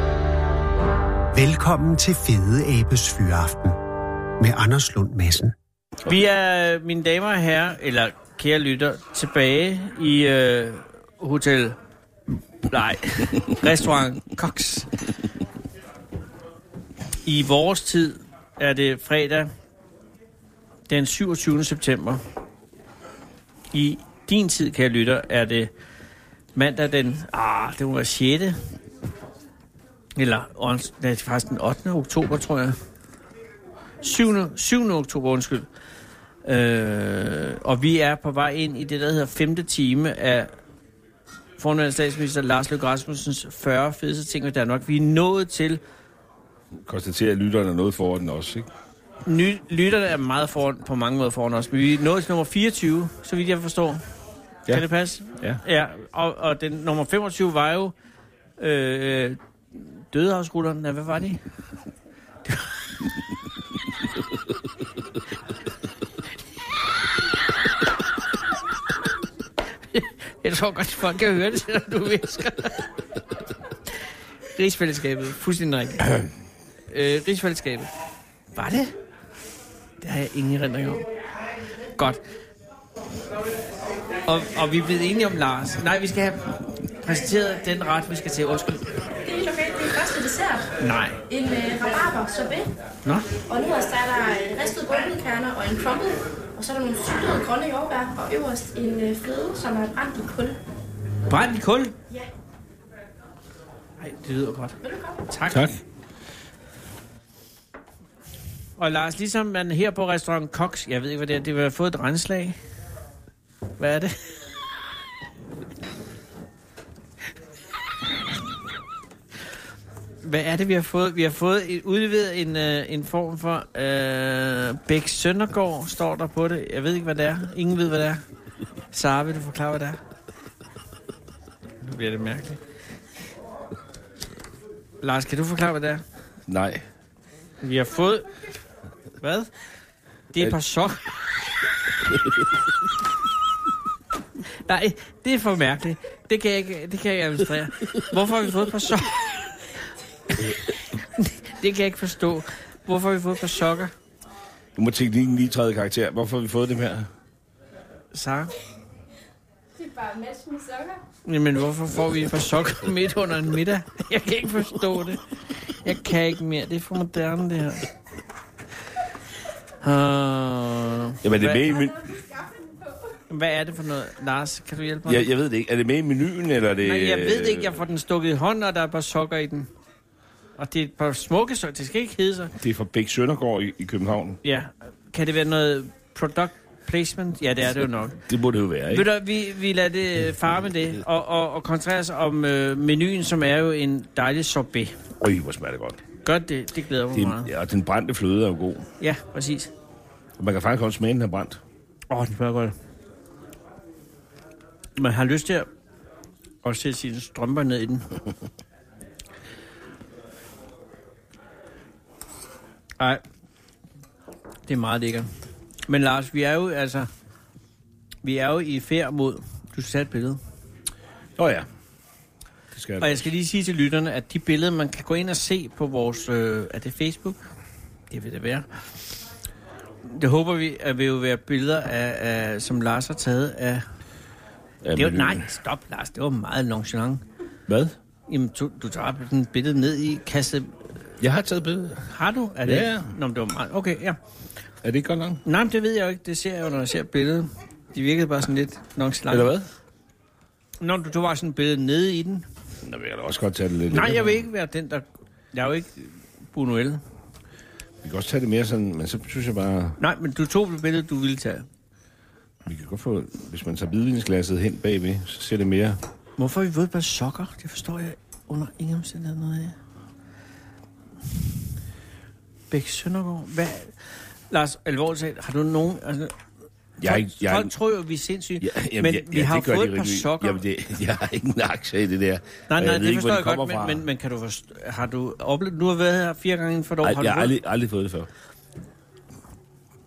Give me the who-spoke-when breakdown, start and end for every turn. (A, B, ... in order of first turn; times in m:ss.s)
0:01.3-0:03.8 A
0:04.4-0:05.5 A
0:06.0-0:11.8 B
0:12.7-0:15.0 B
0:17.2-0:19.5 B
0:20.9-0:22.2 B
0:23.7-0:25.7 B
0:26.5-0:28.6 B
0:30.2-0:32.8 B
0:34.0-0:35.7 B
0:36.4-0:40.5 B
0:41.6-0:45.8 B
0:46.8-0:48.7 C
0:49.3-0:54.0 B
0:54.7-0:57.9 B
0:58.6-1:01.4 B
1:02.4-1:02.7 B
1:09.9-1:12.9 B
1:14.5-1:16.3 B
1:16.9-1:17.9 B
1:18.5-1:18.9 B
1:20.0-1:21.0 B
1:24.2-1:28.9 B
1:29.2-1:30.7 D
1:30.8-1:31.2 B
1:31.3-1:32.7 D
1:33.5-1:40.6 D
1:41.3-1:42.0 B
1:44.0-1:44.8 B
1:44.8-1:45.2 D
1:45.3-1:45.6 B
1:45.5-1:45.8 C
1:48.8-1:52.6 B
1:53.8-1:54.2 B
2:00.2-2:08.2 B
2:08.9-2:10.0 B
2:11.8-2:12.6 B
2:15.0-2:16.0 B
2:16.5-2:16.9 C
2:17.6-2:18.3 B
2:19.2-2:19.5 B
2:20.3-2:21.1 B
2:24.4-2:29.5 B
2:30.3-2:33.9 B
2:34.8-2:37.1 C
2:38.1-2:38.5 B
2:39.9-2:41.0 D
2:41.2-2:47.9 B
2:49.8-2:51.7 B
2:51.2-2:52.2 C
2:53.3-2:55.3 B
2:55.1-2:57.8 C
2:56.8-2:59.7 B
3:00.6-3:02.5 B
3:02.6-3:04.4 C
3:04.4-3:08.2 B
3:08.2-3:09.1 C
3:08.9-3:15.0 B
3:15.2-3:16.0 C
3:16.2-3:17.5 B
3:17.1-3:18.9 C
3:19.0-3:19.7 B
3:20.4-3:21.6 C
3:22.1-3:22.7 B
3:25.0-3:25.7 B
3:26.6-3:28.1 B
3:34.7-3:35.3 B
3:35.9-3:37.1 B
3:38.2-3:40.4 B
3:41.4-3:41.7 C
3:42.7-3:43.3 C
3:43.0-3:47.4 B
3:48.1-3:48.7 B
3:50.0-3:53.8 B
3:54.8-3:55.4 C
3:54.9-3:57.2 B
3:57.7-3:58.0 C
3:58.3-4:00.8 B
4:01.2-4:02.1 C
4:02.1-4:04.2 B
4:02.6-4:03.1 C
4:04.8-4:05.4 C
4:05.4-4:09.5 B
4:09.3-4:09.7 C
4:10.8-4:12.4 B
4:12.8-4:14.4 C
4:13.9-4:17.0 B
4:18.0-4:20.0 C
4:20.0-4:21.7 B
4:22.6-4:26.0 C
4:26.4-4:29.8 B
4:32.7-4:34.0 B
4:34.5-4:36.4 B
4:37.0-4:37.7 C
4:37.0-4:40.6 B
4:38.6-4:44.1 C
4:42.7-4:47.5 B
4:47.0-4:48.3 C